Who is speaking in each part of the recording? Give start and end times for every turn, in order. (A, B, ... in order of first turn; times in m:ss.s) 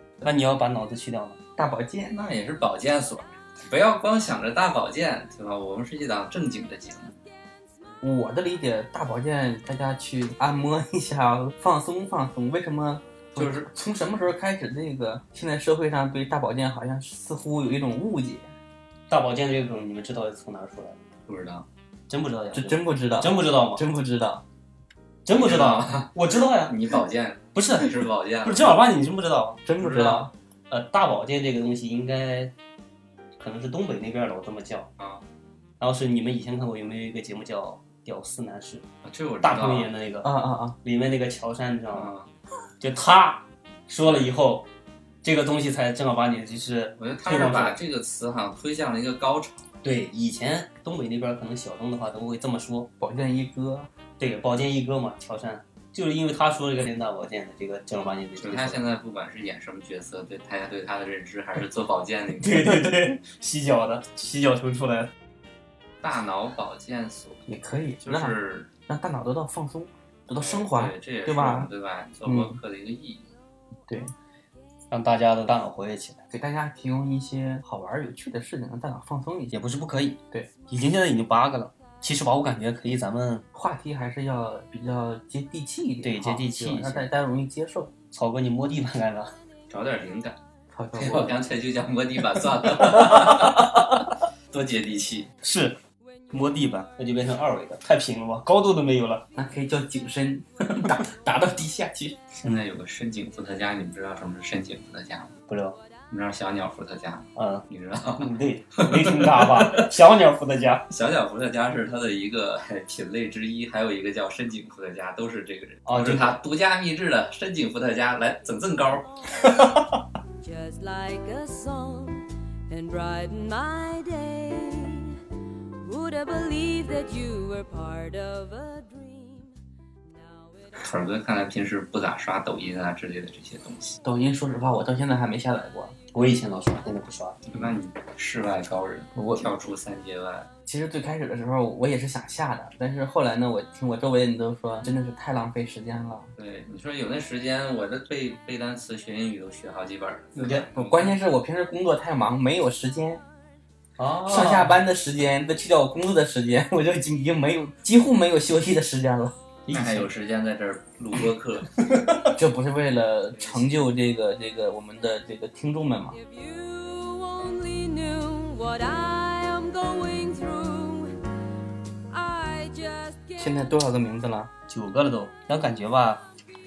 0:00.2-0:01.4 A
0:01.6-0:02.1 B
0:02.0-0:07.2 C
0:08.0-0:18.5 B
0:13.3-0:13.7 C
0:19.1-0:21.0 A
0:21.3-0:21.6 C
0:22.1-0:23.8 A
0:22.5-0:24.4 B
0:25.2-0:26.9 A
0:25.3-0:28.8 C
0:27.5-0:29.6 A
0:29.6-0:30.3 B
0:29.8-0:30.3 C
0:30.7-0:32.5 A
0:33.4-0:34.9 A
0:35.0-0:35.2 C
0:35.8-0:38.8 A
0:39.0-0:39.9 C
0:39.4-0:40.3 A
0:40.2-0:40.8 B
0:40.8-0:42.1 A
0:41.9-0:42.3 C
0:42.8-0:44.7 A
0:44.0-0:44.3 C
0:45.2-0:47.8 A
0:47.0-0:49.7 C
0:49.8-0:52.9 A
0:53.0-0:53.9 B
0:54.2-0:58.8 A
0:58.4-1:02.8 C
1:02.4-1:05.1 A
1:06.0-1:08.7 C
1:07.5-1:08.3 B
1:08.9-1:11.7 B
1:10.4-1:13.3 C
1:12.2-1:12.6 B
1:13.9-1:14.1 B
1:14.9-1:16.2 A
1:16.3-1:19.6 B
1:19.5-1:23.4 A
1:23.5-1:27.9 B
1:26.0-1:27.1 A
1:28.1-1:29.3 A
1:29.7-1:30.4 C
1:30.7-1:31.4 B
1:30.9-1:33.9 C
1:34.5-1:35.3 C
1:35.4-1:35.8 A
1:36.3-1:39.3 A
1:39.3-1:42.2 B
1:42.4-1:45.3 C
1:45.5-1:45.8 A
1:46.1-1:49.8 C
1:47.4-1:50.9 A
1:50.9-1:59.1 C
1:55.9-1:56.4 A
2:00.4-2:05.2 D
2:05.8-2:09.5 D
2:10.3-2:10.6 D
2:10.8-2:14.0 C
2:14.0-2:16.0 B
2:16.1-2:17.5 A
2:17.5-2:20.5 C
2:19.1-2:19.5 B
2:20.6-2:26.3 B
2:26.4-2:31.2 C
2:30.3-2:30.7 A
2:30.7-2:33.2 B
2:34.0-2:34.8 A
2:34.2-2:39.3 B
2:39.6-2:40.1 A
2:39.7-2:41.8 C
2:42.3-2:46.2 B
2:43.3-2:43.8 C
2:46.2-2:51.2 D
2:52.1-2:53.5 D
2:53.4-2:54.5 B
2:54.7-2:56.3 A